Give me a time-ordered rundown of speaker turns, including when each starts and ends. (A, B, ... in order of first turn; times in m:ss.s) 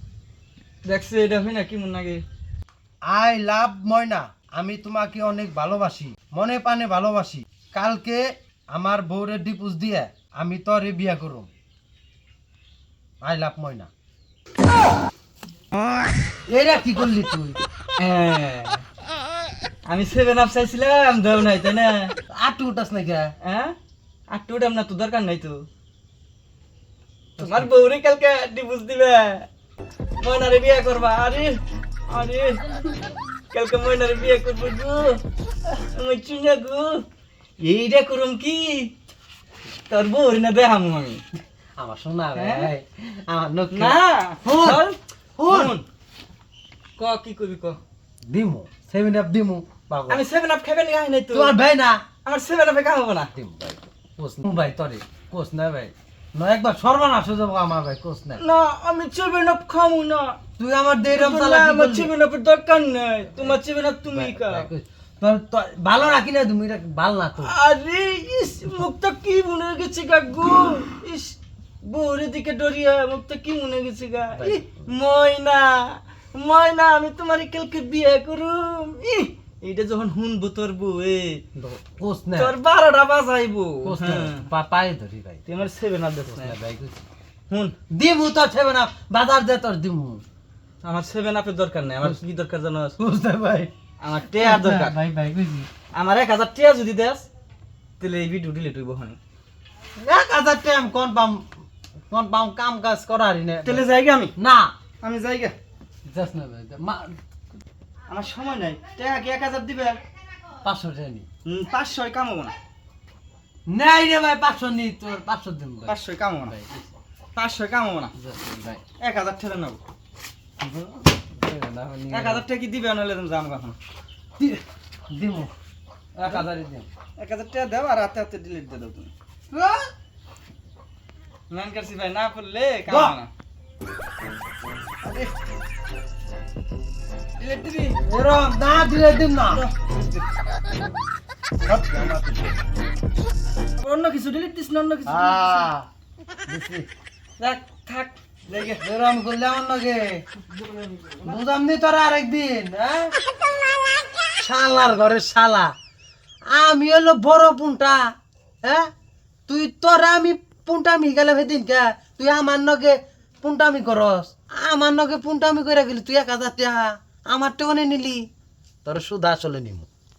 0:00.8-0:02.2 A
0:03.0-0:11.5 B
0:13.2-0:13.9 B
0:16.5-0:17.6 B
0:18.0-0:18.8 A
0:19.9-0:22.1 A
0:22.3-0:23.3 B
0:23.4-0:23.7 A
0:24.3-0:25.6 A
0:27.4-0:27.7 B
0:27.4-0:29.5 A
0:30.2-0:31.6 A
0:32.1-0:32.9 A
0:33.5-0:37.0 A
0:37.6-0:38.9 A
0:39.9-0:41.2 A
0:41.8-0:44.8 B
0:42.3-0:42.7 A
0:43.7-0:45.0 A
0:45.4-0:45.8 B
0:45.5-0:45.8 A
0:47.0-0:47.8 A
0:48.3-0:50.2 B
0:50.1-0:51.6 A
0:51.3-0:52.0 B
0:52.2-0:53.3 A
0:53.3-0:58.4 B
0:58.4-1:00.4 A
1:00.6-1:02.1 B
1:01.1-1:04.7 A
1:03.3-1:03.6 B
1:04.1-1:07.6 B
1:07.4-1:21.4 A
1:14.4-1:14.6 B
1:21.5-1:22.5 B
1:22.3-1:24.4 A
1:23.8-1:25.7 B
1:25.4-1:26.6 A
1:26.3-1:27.0 B
1:27.9-1:30.2 B
1:30.8-1:33.0 A
1:33.0-1:33.7 B
1:34.0-1:35.0 A
1:34.3-1:35.7 B
1:35.9-1:37.3 A
1:38.0-1:39.2 A
1:40.0-1:41.5 B
1:42.1-1:43.8 B
1:43.6-1:44.3 A
1:44.4-1:44.7 B
1:45.0-1:45.5 A
1:46.0-1:47.2 B
1:48.1-1:50.0 A
1:50.6-1:51.2 B
1:51.4-1:52.5 A
1:53.7-1:56.9 B
1:55.9-1:56.5 A
1:57.4-1:58.1 A
1:58.2-1:58.8 B
1:59.0-1:59.8 A
2:00.6-2:02.4 B
2:02.1-2:03.8 A
2:04.4-2:05.5 B
2:06.2-2:06.9 B
2:07.2-2:09.1 A
2:09.5-2:09.9 B
2:11.5-2:13.3 A
2:12.9-2:13.2 B
2:15.0-2:15.3 A
2:17.4-2:18.0 A
2:18.0-2:19.6 B
2:19.5-2:20.2 A
2:21.6-2:22.6 B
2:23.8-2:25.7 A
2:25.0-2:25.9 B
2:26.4-2:26.9 B
2:27.4-2:28.8 A
2:28.8-2:30.2 B
2:30.5-2:31.4 A
2:31.2-2:33.1 B
2:34.3-2:35.7 B
2:36.5-2:38.9 B
2:39.5-2:48.2 B
2:48.8-2:49.9 B